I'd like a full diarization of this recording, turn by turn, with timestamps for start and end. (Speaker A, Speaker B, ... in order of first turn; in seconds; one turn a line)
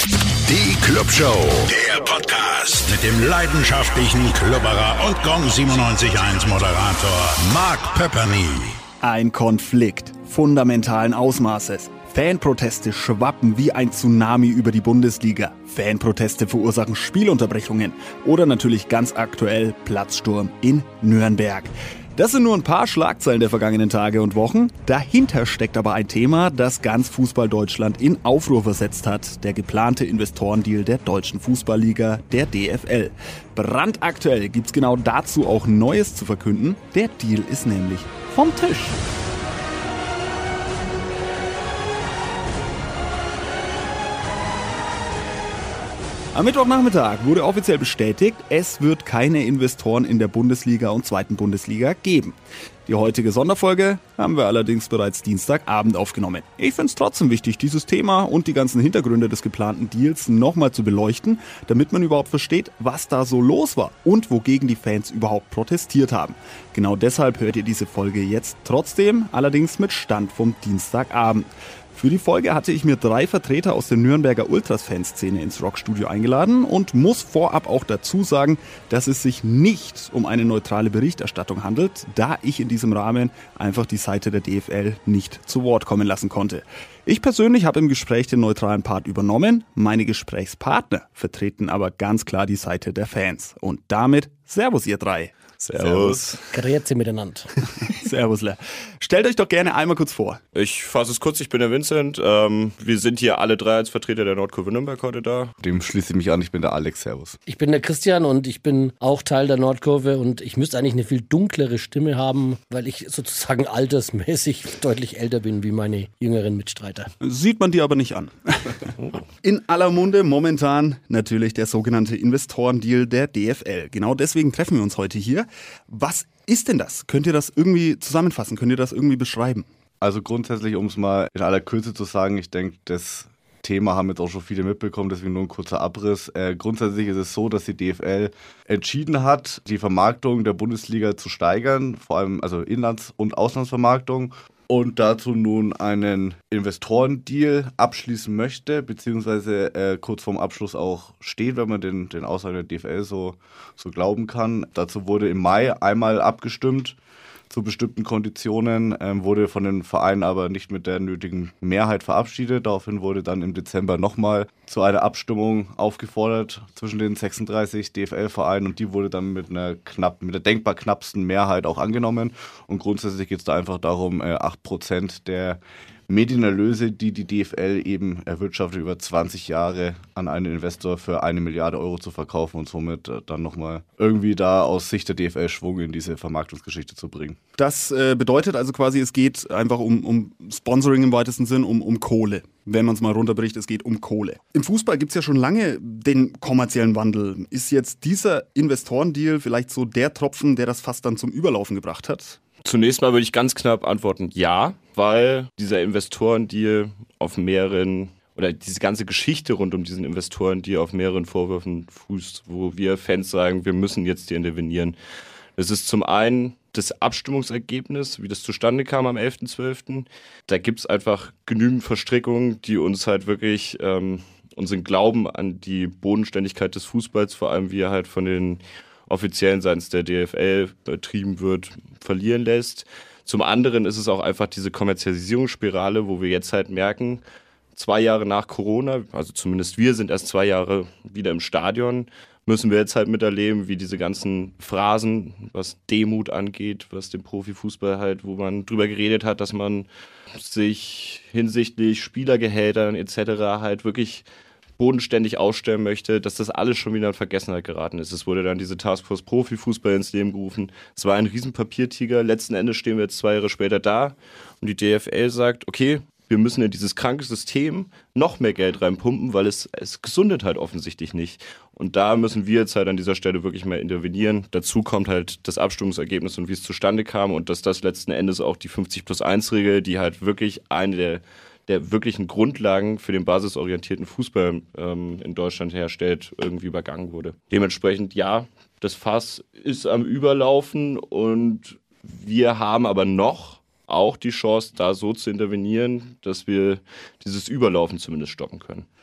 Speaker A: 0.5-8.8
Speaker B: 9.0-39.0
Speaker B: 46.3-95.3
Speaker C: 95.6-96.4
Speaker D: 95.8-96.2
Speaker E: 96.5-97.5
Speaker B: 97.8-100.4
Speaker C: 100.5-105.5
Speaker D: 105.6-107.4
Speaker E: 107.5-117.1
Speaker B: 117.2-118.9
Speaker B: 119.4-129.7
Speaker D: 130.0-157.0
Speaker D: 157.5-187.4
Speaker B: 187.6-202.4
Speaker C: 202.6-214.9
Speaker C: 215.6-237.2
Speaker C: 237.8-254.2
Speaker C: 254.8-298.9